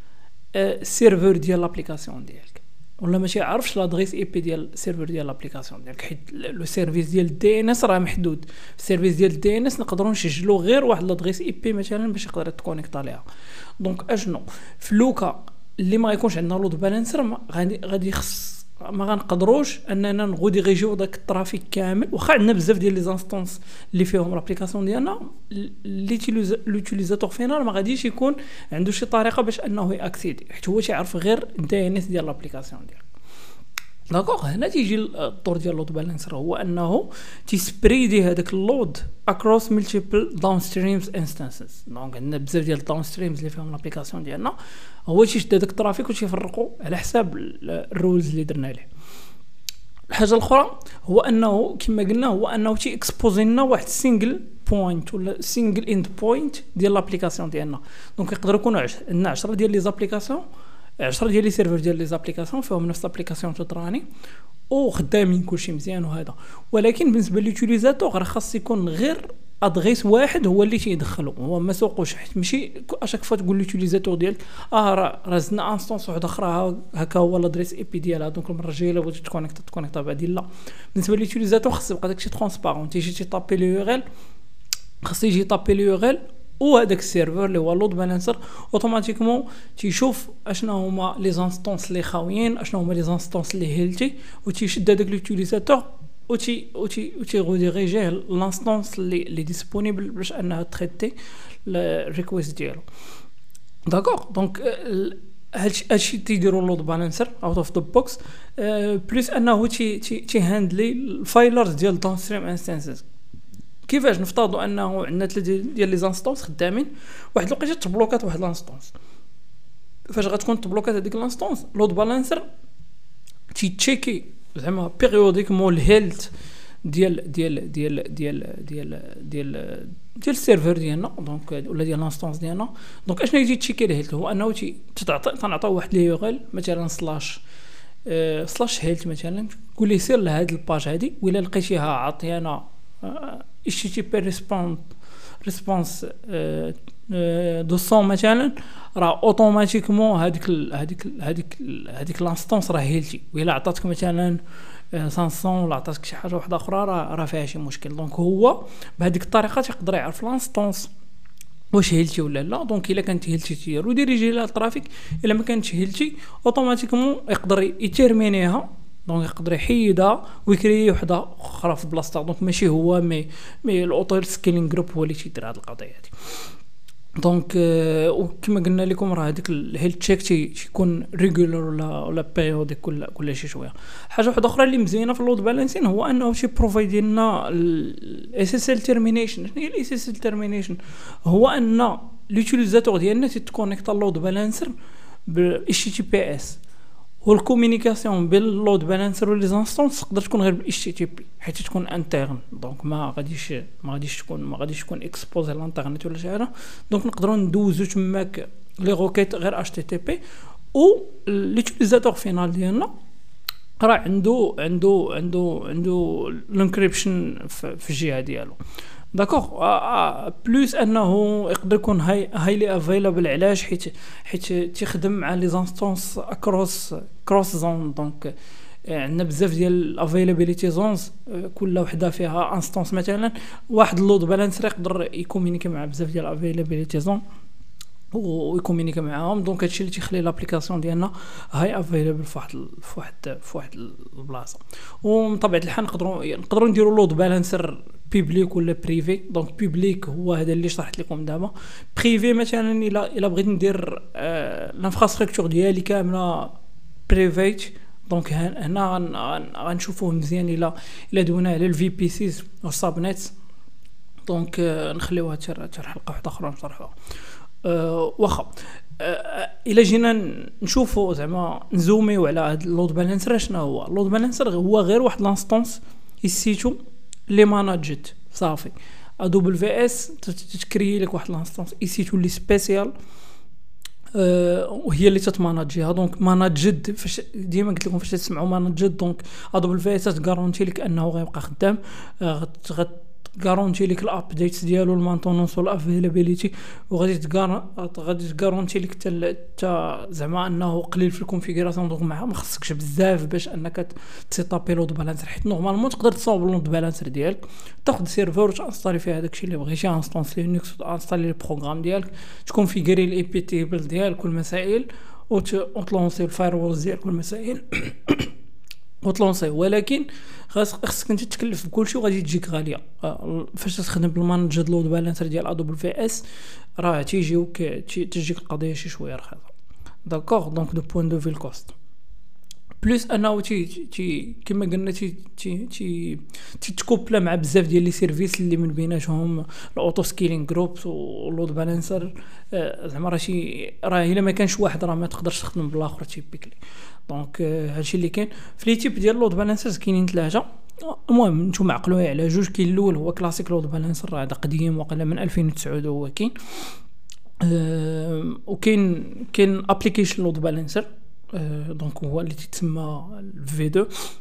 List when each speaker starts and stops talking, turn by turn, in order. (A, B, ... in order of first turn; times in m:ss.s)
0:00.5-0:13.2 A
0:13.8-0:33.0 A
0:34.1-0:48.9 A
0:50.1-1:00.4 A
1:01.0-1:04.0 A
1:04.7-1:24.0 A
1:25.0-1:42.8 A
1:43.8-1:53.0 A
1:53.8-1:58.9 A
2:00.1-2:02.4 A
2:03.5-2:06.3 A
2:06.8-2:17.4 A
2:18.0-2:24.9 A
2:25.4-2:40.9 A
2:41.7-2:56.1 A
2:57.2-3:14.7 A
3:15.2-3:16.6 A
3:17.2-3:30.2 A
3:30.7-3:32.9 A
3:33.8-3:38.6 A
3:39.1-3:57.2 A
3:58.1-4:16.5 A
4:17.1-4:23.3 A
4:24.2-4:26.9 A
4:27.6-4:42.9 A
4:44.1-5:18.3 A
5:19.0-5:26.2 A
5:26.8-5:29.5 A
5:30.0-5:31.7 A
5:32.8-5:56.3 A
5:57.4-6:03.9 A